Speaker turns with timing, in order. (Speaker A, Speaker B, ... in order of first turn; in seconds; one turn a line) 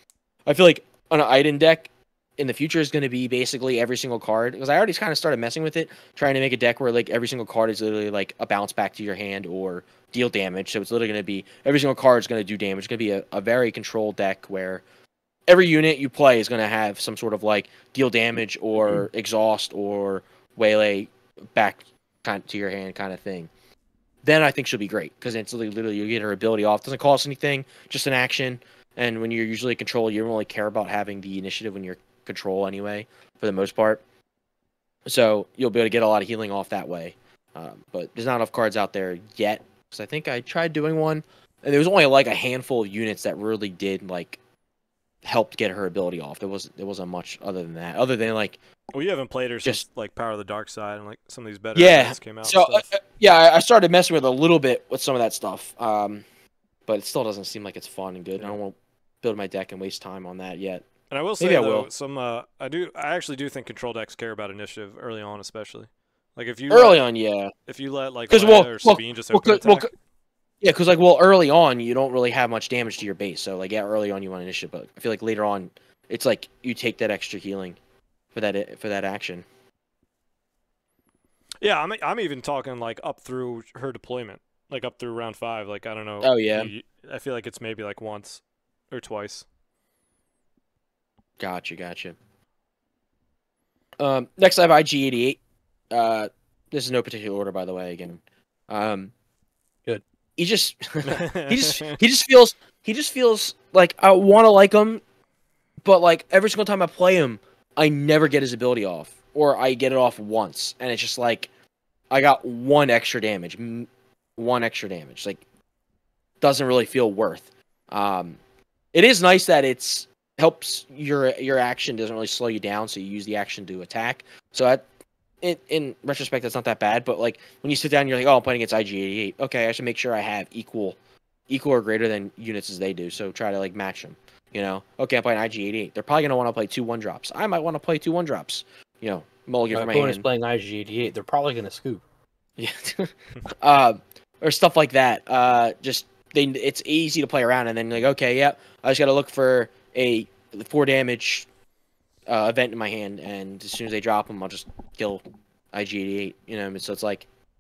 Speaker A: 0.5-14.8
Speaker A: 15.5-23.5
Speaker A: 24.2-34.0
Speaker A: 35.1-44.4
Speaker A: 45.2-48.6
Speaker B: 48.9-52.9
Speaker A: 51.8-56.2
Speaker A: 56.9-60.9
Speaker B: 61.1-67.0
Speaker A: 61.4-61.9
Speaker A: 66.7-67.5
Speaker B: 67.7-69.9
Speaker A: 68.3-69.9
Speaker A: 70.6-77.8
Speaker A: 78.3-79.5
Speaker B: 81.6-89.5
Speaker A: 86.2-86.7
Speaker A: 91.4-92.2
Speaker A: 94.0-95.4
Speaker A: 95.9-99.1
Speaker A: 100.4-105.0
Speaker B: 101.0-102.0
Speaker A: 105.8-111.5
Speaker A: 112.1-115.4
Speaker A: 116.4-118.4
Speaker A: 118.9-124.8
Speaker A: 125.4-131.0
Speaker A: 131.5-140.3
Speaker C: 139.7-142.0
Speaker A: 142.6-151.5
Speaker A: 152.3-157.3